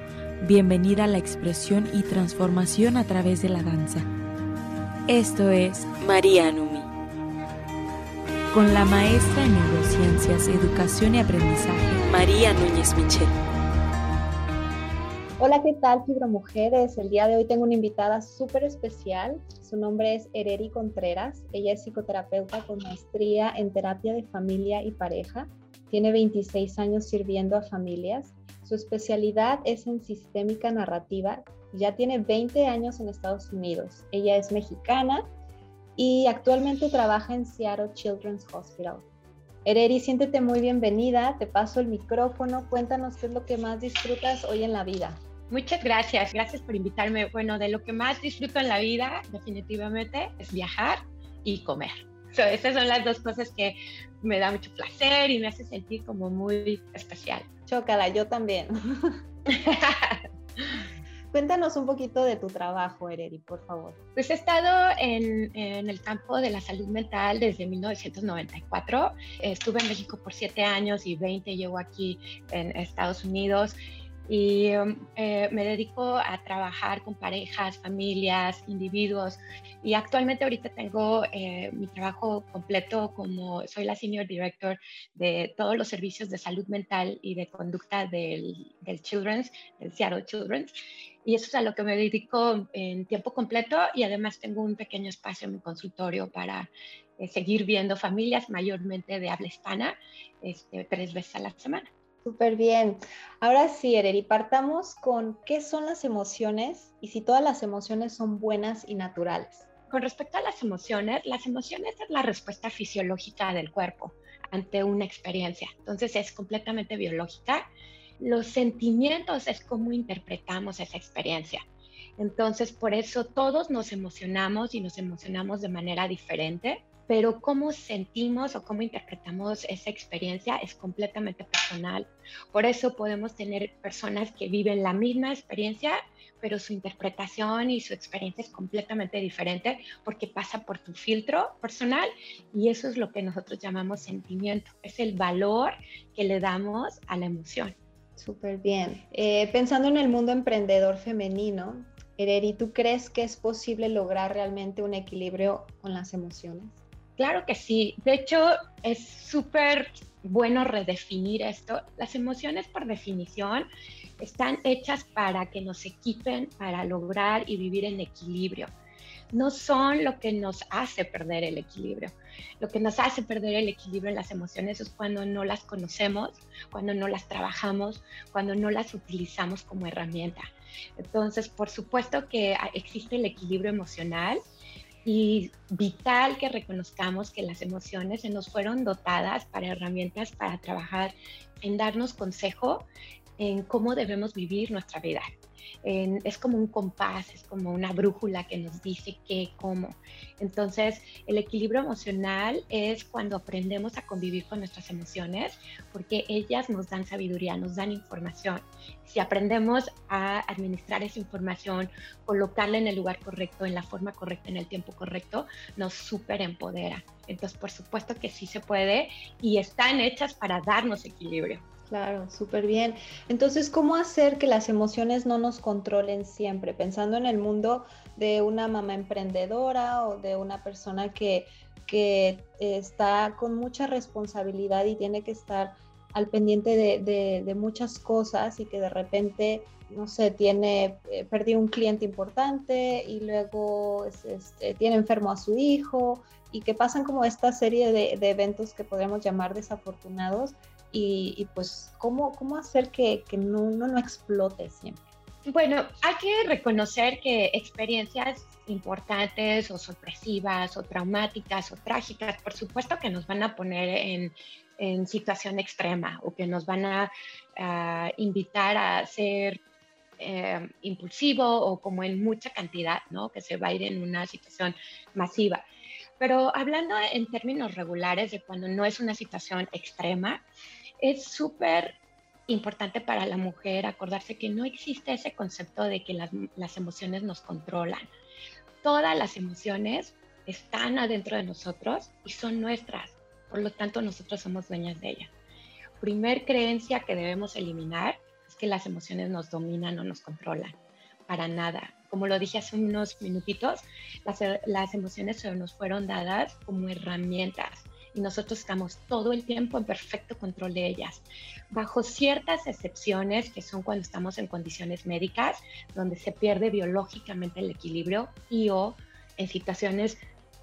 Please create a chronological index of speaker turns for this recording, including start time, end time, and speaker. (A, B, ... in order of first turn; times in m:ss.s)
0:00.4-0:04.1 A
0:05.1-0:06.9 A
0:08.5-0:13.4 A
0:15.4-0:35.3 B
0:36.0-0:39.0 B
0:39.6-0:45.2 B
0:45.5-0:57.5 C
0:57.7-0:59.1 B
0:59.5-1:00.2 C
1:01.3-1:04.0 B
1:04.2-1:13.8 C
1:14.3-1:30.7 C
1:31.2-1:41.9 C
1:42.2-1:49.7 B
1:49.9-1:57.7 C
1:58.2-2:01.6 C
2:02.2-2:27.8 C
2:28.2-2:36.8 B
2:37.2-2:43.7 C
2:44.2-2:48.7 C
2:49.3-3:00.4 C
3:01.0-3:04.4 C
3:05.0-3:12.9 C
3:13.4-3:15.3 C
3:15.8-3:41.6 C
3:41.9-4:15.0 B
4:15.5-4:29.6 C
4:30.2-4:35.6 C
4:36.2-4:40.4 C
4:41.0-4:48.1 C
4:48.8-4:55.3 C
4:56.0-5:20.2 C